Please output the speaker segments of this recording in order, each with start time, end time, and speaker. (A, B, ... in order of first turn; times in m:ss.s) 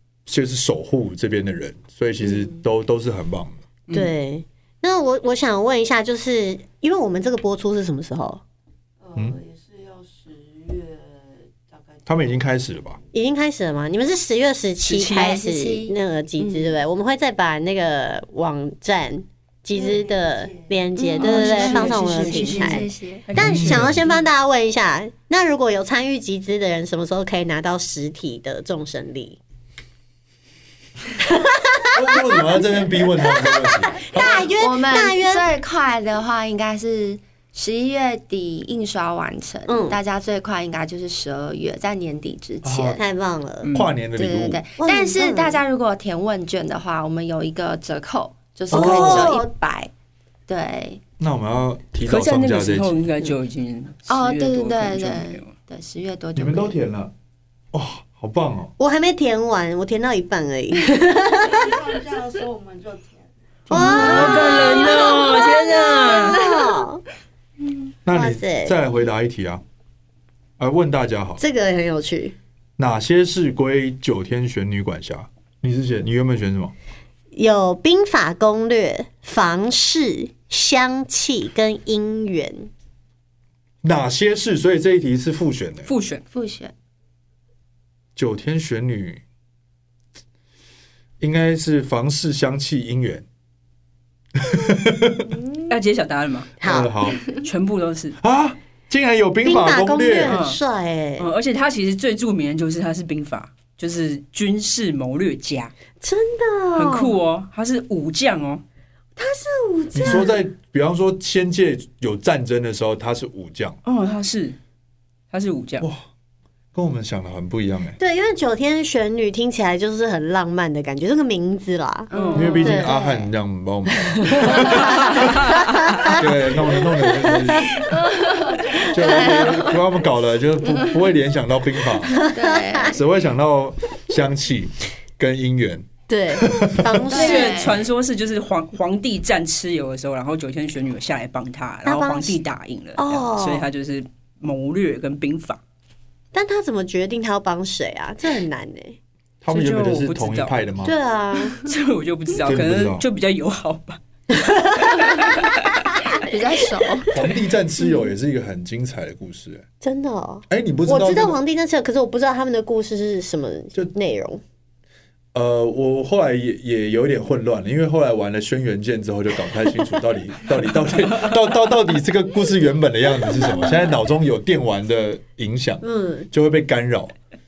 0:00.3-0:03.6 A
0:02.2-0:02.5 B
0:03.9-0:08.4 B
0:09.0-0:13.0 C
0:12.1-0:13.0 A
0:13.1-0:29.4 B
0:14.8-0:15.4 D
0:15.1-0:16.7 E
0:19.7-0:20.8 C
0:21.0-0:23.2 E
0:21.2-0:24.1 D
0:23.4-0:24.0 A
0:31.2-0:32.6 B
0:31.9-0:34.5 A
0:33.1-0:35.5 B
0:34.2-0:43.0 E
0:39.7-0:40.0 B
0:42.6-0:43.0 A
0:43.0-0:43.7 B
0:43.6-0:44.0 D
0:43.7-0:44.6 A
0:44.2-0:49.9 E
0:44.8-0:45.6 B
0:48.7-0:49.5 B
0:48.7-0:49.4 A
0:50.5-0:51.0 E
0:51.2-0:53.0 A
0:52.1-0:55.5 D
0:54.1-0:56.8 E
0:56.4-0:57.1 A
0:57.7-0:58.7 A
0:58.8-1:01.7 B
1:01.5-1:03.3 C
1:03.7-1:06.4 D
1:03.7-1:07.0 B
1:03.7-1:04.5 A
1:03.8-1:06.8 E
1:08.0-1:09.6 A
1:08.1-1:08.8 B
1:10.6-1:11.4 A
1:11.4-1:12.4 B
1:12.8-1:16.7 A
1:17.3-1:22.7 B
1:23.8-1:25.9 A
1:25.9-1:26.2 D
1:26.3-1:26.7 E
1:28.2-1:29.2 A
1:31.2-1:33.2 A
1:34.4-1:35.2 A
1:35.7-1:36.5 D
1:36.6-1:36.9 B
1:36.6-1:37.2 A
1:37.2-1:38.2 D
1:38.2-1:40.4 A
1:39.4-1:41.3 B
1:40.3-1:40.6 D
1:41.2-1:45.7 D
1:46.0-1:47.2 B
1:46.8-1:48.6 D
1:49.2-1:50.4 B
1:49.9-1:53.8 A
1:53.8-1:54.6 D
1:55.3-1:55.9 D
1:55.8-1:56.0 A
1:56.7-1:58.0 A
1:58.0-2:03.1 B
2:02.1-2:03.1 E
2:02.1-2:02.8 D
2:02.3-2:05.3 A
2:04.3-2:05.0 B
2:05.0-2:06.1 D
2:05.6-2:07.9 B
2:06.0-2:07.7 A
2:07.8-2:09.7 E
2:08.9-2:12.2 A
2:09.0-2:09.6 B
2:10.7-2:11.0 E
2:12.0-2:13.0 B
2:12.2-2:13.0 E
2:12.9-2:17.1 A
2:16.1-2:17.7 B
2:17.1-2:17.8 E
2:17.1-2:25.6 D
2:21.8-2:22.4 B
2:23.0-2:23.7 B
2:26.3-2:29.0 B
2:29.4-2:30.9 A
2:29.5-2:30.6 D
2:30.8-2:31.6 B
2:31.6-2:34.0 D
2:32.5-2:33.0 A
2:34.4-2:35.1 B
2:35.0-2:35.6 D
2:36.2-2:37.1 E
2:37.1-2:39.6 A
2:39.8-2:44.4 B
2:40.5-2:41.4 A
2:45.3-2:57.1 A
2:55.8-2:56.3 B